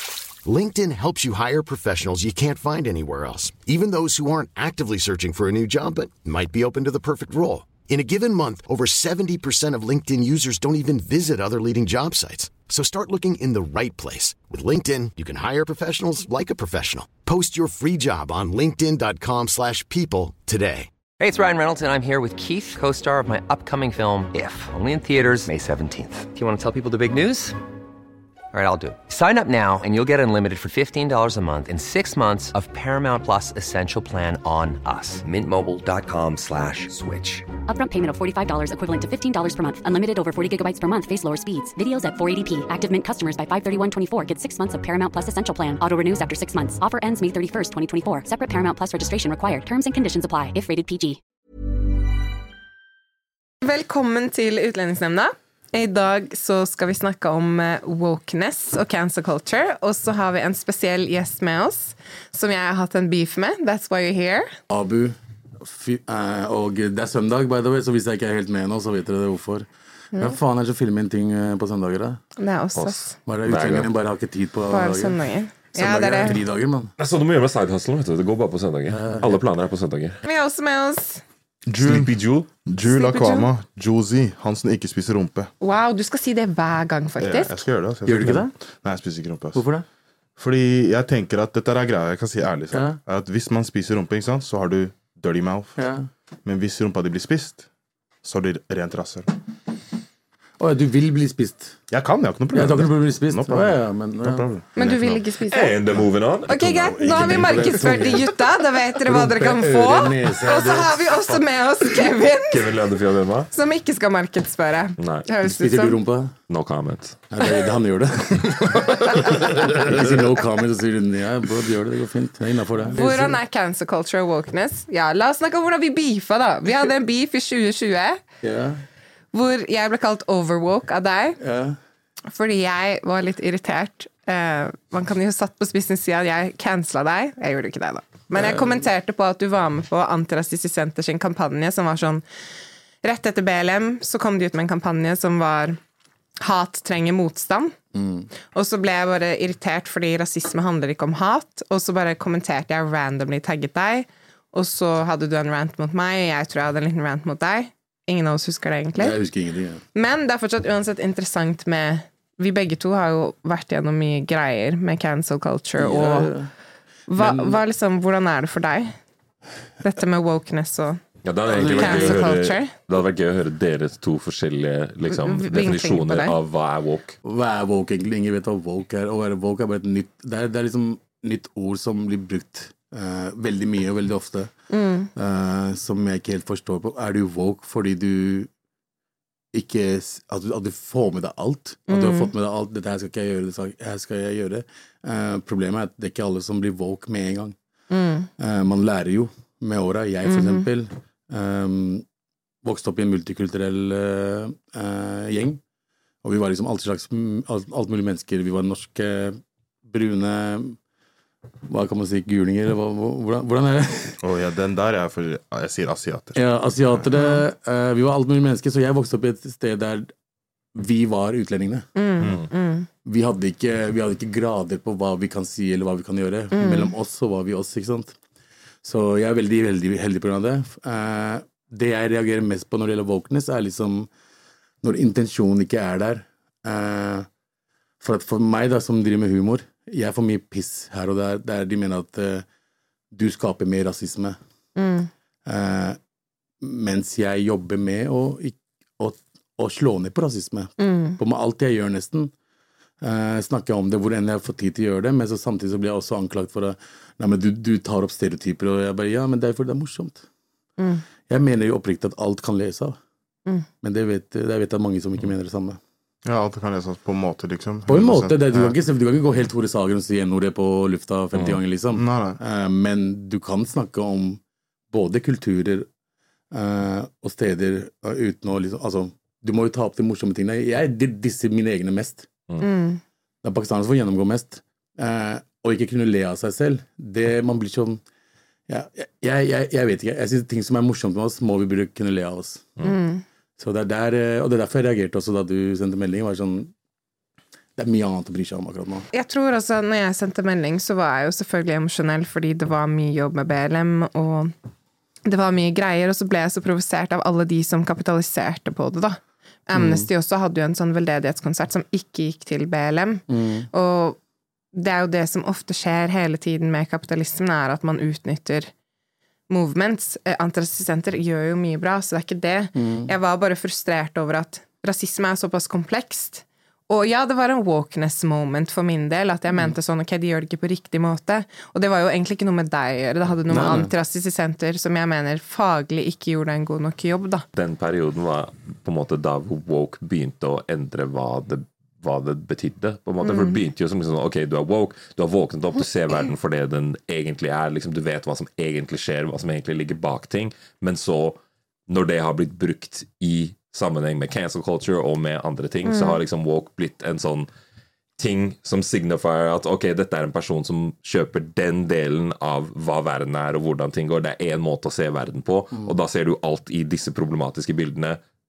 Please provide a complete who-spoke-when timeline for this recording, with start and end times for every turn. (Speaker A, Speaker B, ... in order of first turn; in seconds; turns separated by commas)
Speaker A: 0.5-20.9, Speaker B: 21.2-27.6, Speaker B: 28.5-37.5, Speaker C: 37.7-51.2, Speaker D: 53.6-64.5, Speaker E: 64.7-72.2, Speaker D: 72.4-73.2, Speaker F: 72.8-73.9, Speaker E: 73.3-75.2, Speaker D: 74.7-76.4, Speaker E: 75.7-76.9, Speaker F: 77.0-80.2, Speaker E: 78.9-79.4, Speaker D: 80.2-81.2, Speaker G: 81.7-82.1, Speaker F: 81.8-82.5, Speaker G: 82.7-85.5, Speaker D: 82.9-83.5, Speaker D: 85.6-87.6, Speaker G: 87.2-89.7, Speaker E: 88.1-88.5, Speaker E: 89.5-89.8, Speaker G: 90.4-95.8, Speaker E: 92.7-93.0, Speaker E: 95.8-96.1, Speaker G: 96.5-97.7, Speaker G: 98.2-99.3, Speaker E: 100.6-101.8, Speaker G: 101.9-105.2, Speaker E: 102.5-104.5, Speaker D: 104.8-105.8, Speaker F: 105.5-107.7, Speaker D: 106.5-112.6, Speaker G: 107.0-107.5, Speaker E: 107.1-108.3, Speaker E: 109.1-111.4, Speaker F: 112.5-113.5, Speaker D: 113.5-116.0, Speaker F: 115.0-115.3, Speaker E: 115.5-116.3, Speaker F: 116.5-117.2, Speaker E: 117.3-123.4, Speaker D: 123.0-128.2, Speaker E: 128.4-128.8, Speaker D: 129.3-131.4, Speaker E: 131.4-131.8, Speaker D: 132.3-142.2, Speaker E: 138.4-138.8, Speaker D: 143.0-145.8, Speaker D: 146.4-147.8, Speaker E: 147.9-148.3, Speaker D: 148.5-159.2, Speaker E: 159.0-159.8, Speaker D: 159.9-166.3, Speaker E: 165.8-166.5, Speaker D: 167.1-168.9, Speaker E: 167.2-167.6, Speaker D: 169.8-171.0, Speaker F: 171.2-177.2, Speaker E: 171.5-172.3, Speaker D: 171.6-172.7, Speaker D: 175.1-176.3, Speaker E: 177.2-184.5, Speaker D: 184.7-185.1, Speaker E: 185.1-188.5, Speaker E: 189.5-197.6, Speaker D: 191.9-192.3, Speaker D: 197.9-198.3, Speaker E: 198.4-202.1, Speaker D: 200.3-200.6, Speaker E: 202.6-205.6, Speaker E: 206.2-210.8, Speaker E: 211.7-214.2, Speaker G: 214.2-216.4, Speaker E: 216.4-220.1, Speaker D: 217.2-217.4, Speaker E: 220.8-221.9, Speaker D: 222.0-222.9, Speaker E: 223.0-228.2, Speaker D: 226.5-226.9, Speaker E: 228.8-234.1, Speaker E: 234.8-237.3, Speaker E: 238.0-242.4, Speaker E: 243.1-244.4, Speaker D: 244.8-245.1, Speaker E: 245.5-246.0, Speaker E: 246.6-252.3, Speaker D: 250.8-251.2, Speaker E: 253.0-260.2, Speaker D: 260.8-261.0, Speaker E: 261.3-263.0, Speaker E: 263.8-265.8, Speaker G: 266.2-268.8, Speaker E: 267.9-274.4, Speaker G: 271.3-272.4, Speaker E: 274.9-275.9, Speaker E: 276.5-282.3, Speaker D: 282.6-283.0, Speaker E: 283.4-288.0, Speaker E: 288.7-292.7, Speaker D: 292.8-293.2, Speaker E: 293.6-296.7, Speaker E: 297.8-299.1, Speaker D: 299.1-304.5, Speaker D: 305.2-314.2, Speaker E: 309.7-310.1, Speaker E: 313.3-313.7, Speaker D: 314.7-318.7, Speaker D: 319.5-337.4, Speaker E: 322.8-323.1, Speaker E: 333.5-333.9, Speaker F: 337.5-357.5, Speaker D: 343.2-343.6, Speaker D: 355.9-356.2, Speaker F: 358.2-368.2